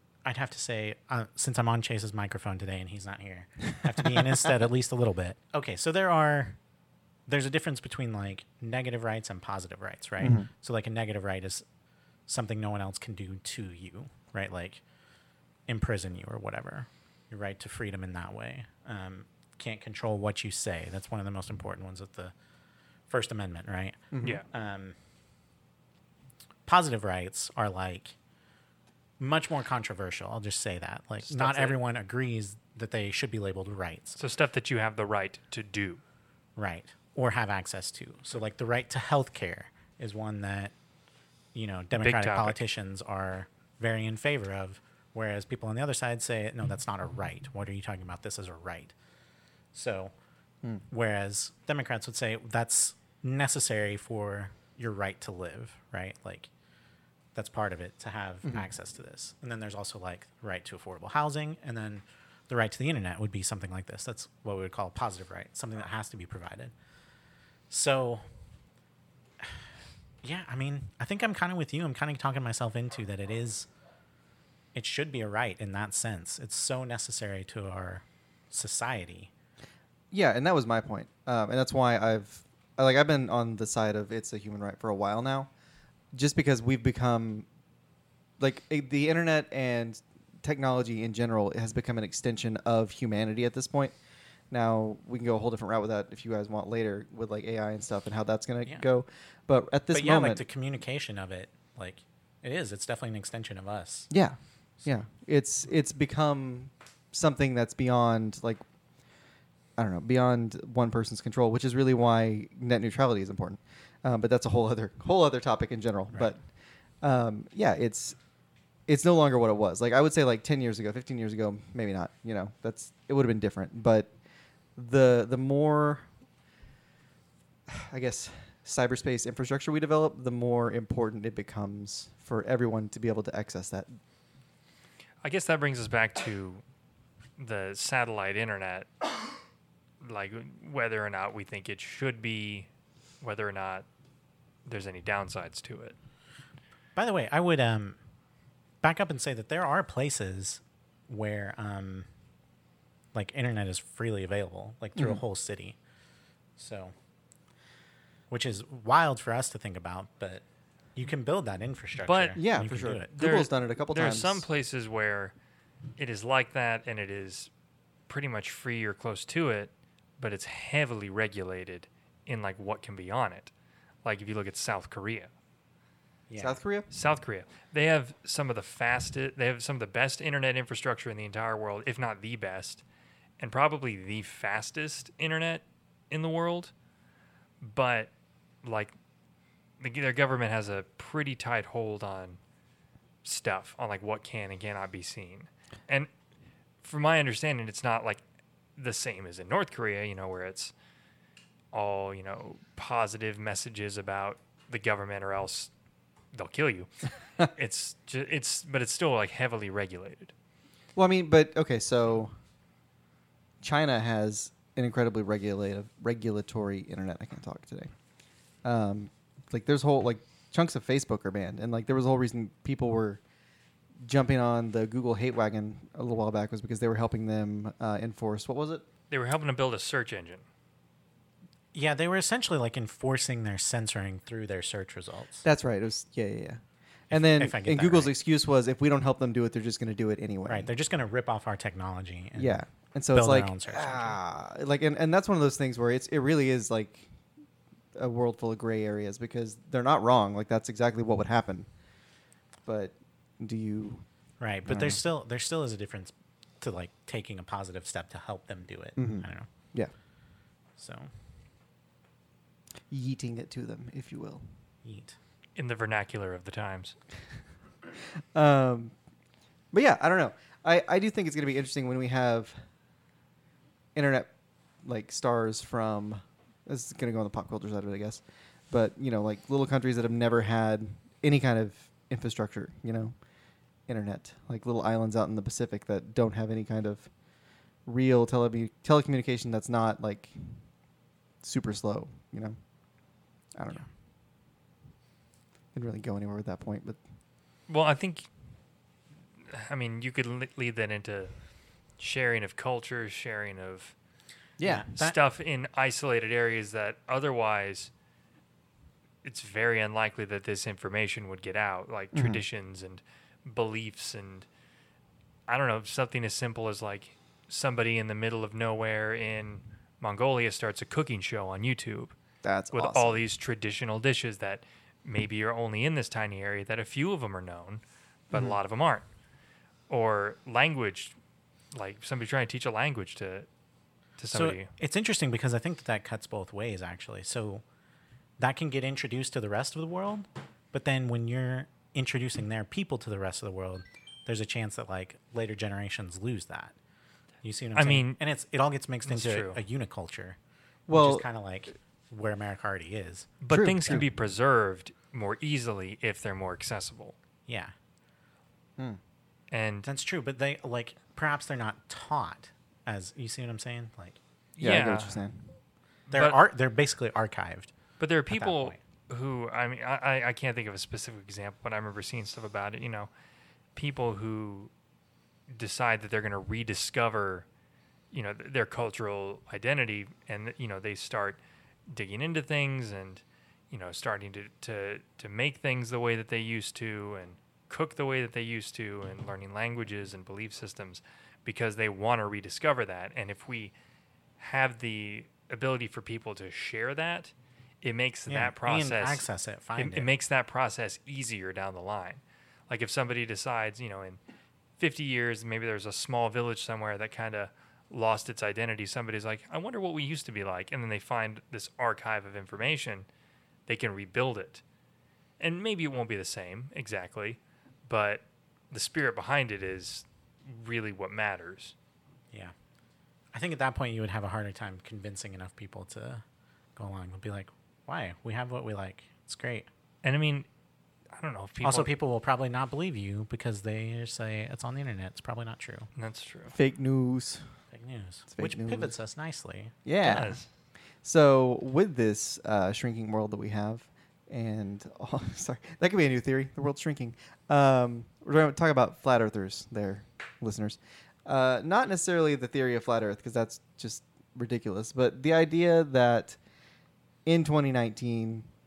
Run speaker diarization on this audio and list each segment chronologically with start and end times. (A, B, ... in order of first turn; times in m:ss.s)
0:00.2-0:06.6 A
0:07.3-0:11.6 A
0:10.2-0:10.5 B
0:12.3-0:14.8 A
0:15.7-0:22.3 A
0:23.1-0:25.0 A
0:24.1-0:24.4 B
0:26.7-0:28.2 A
0:29.2-0:34.2 A
0:31.2-0:31.8 C
0:34.2-0:36.0 C
0:36.6-0:40.7 A
0:41.6-0:48.9 A
0:42.0-0:42.6 C
0:49.7-0:50.1 A
0:50.9-0:56.5 A
0:57.4-1:06.7 A
1:07.7-1:08.2 A
1:10.2-1:13.7 A
1:14.8-1:19.3 A
1:20.1-1:25.5 B
1:26.1-1:27.5 B
1:28.4-1:34.0 B
1:34.5-1:40.4 B
1:39.9-1:44.1 A
1:44.1-1:48.6 B
1:49.8-1:56.4 B
1:57.0-1:58.2 B
1:58.9-2:04.1 B
2:04.8-2:06.1 B
2:07.7-2:13.9 B
2:15.2-2:16.6 C
2:17.4-2:18.9 C
2:20.0-2:22.7 C
2:23.2-2:23.9 C
2:24.7-2:26.0 C
2:27.0-2:28.0 A
2:28.8-2:32.1 A
2:33.1-2:35.8 A
2:35.0-2:35.2 B
2:36.6-2:36.9 A
2:38.3-2:40.4 A
2:41.0-2:43.1 A
2:42.0-2:42.4 C
2:42.4-2:44.5 B
2:43.2-2:45.3 C
2:46.0-2:47.5 C
2:48.1-2:53.5 C
2:54.0-2:55.3 C
2:56.3-2:56.6 A
2:56.4-2:56.9 B
2:56.9-3:02.8 C
3:03.4-3:06.7 C
3:07.6-3:08.1 C
3:08.6-3:08.9 C
3:09.8-3:12.4 C
3:13.2-3:16.1 C
3:16.8-3:18.2 C
3:18.8-3:20.7 C
3:21.7-3:25.7 C
3:26.3-3:26.9 C
3:27.4-3:30.3 C
3:31.0-3:32.3 B
3:33.6-3:37.9 B
3:38.6-3:43.2 B
3:44.0-3:48.8 B
3:49.1-3:50.4 C
3:51.7-3:55.5 A
3:55.4-4:00.7 B
3:57.1-3:58.1 A
4:00.5-4:04.2 A
4:02.4-4:07.1 B
4:08.0-4:11.7 B
4:12.7-4:14.0 B
4:14.4-4:19.5 A
4:14.7-4:15.0 B
4:19.0-4:19.9 B
4:20.8-4:21.1 A
4:22.9-4:24.4 B
4:24.8-4:25.2 A
4:25.6-4:27.0 C
4:28.3-4:29.0 B
4:29.7-4:32.6 B
4:34.0-4:34.3 B
4:34.8-4:43.1 B
4:43.9-4:47.1 B
4:47.9-4:50.6 B
4:51.4-4:52.6 B
4:53.6-4:53.8 B
4:55.7-4:57.0 B
4:57.7-4:58.3 C
4:59.5-5:01.3 C
5:02.0-5:04.0 C
5:04.6-5:04.9 B
5:04.6-5:05.2 A
5:05.0-5:07.9 C
5:09.2-5:14.5 C
5:12.1-5:12.4 B
5:15.5-5:22.2 C
5:22.4-5:23.2 B
5:22.7-5:29.1 C
5:28.3-5:28.6 B
5:29.9-5:31.2 C
5:31.7-5:33.5 C
5:34.2-5:34.7 C
5:34.3-5:37.6 A
5:38.4-5:46.7 A
5:47.4-5:50.4 A
5:47.8-5:48.2 C
5:49.1-5:49.6 C
5:50.9-5:51.2 B
5:50.9-5:54.1 A
5:53.4-5:57.2 C
5:53.5-5:54.1 B
5:57.5-5:57.7 A
5:59.5-5:59.9 C
5:59.8-6:04.2 A
6:04.6-6:05.2 C
6:04.6-6:05.5 B
6:06.1-6:06.4 C
6:06.1-6:07.7 A
6:08.0-6:13.1 C
6:08.3-6:08.8 A
6:13.8-6:14.7 C
6:15.5-6:17.5 C
6:18.1-6:33.7 C
6:34.4-6:39.3 C
6:38.3-6:40.1 A
6:39.8-6:44.2 C
6:44.8-6:53.1 C
6:53.7-6:54.6 C
6:55.4-7:01.8 C
7:03.3-7:06.2 A
7:06.8-7:09.7 A
7:10.0-7:10.5 C
7:11.2-7:11.9 C
7:11.6-7:15.9 A
7:16.0-7:16.5 C
7:16.5-7:17.5 B
7:17.7-7:19.7 A
7:18.3-7:19.0 B
7:19.8-7:20.4 B
7:20.0-7:20.5 C
7:21.0-7:36.4 B
7:37.3-7:38.5 B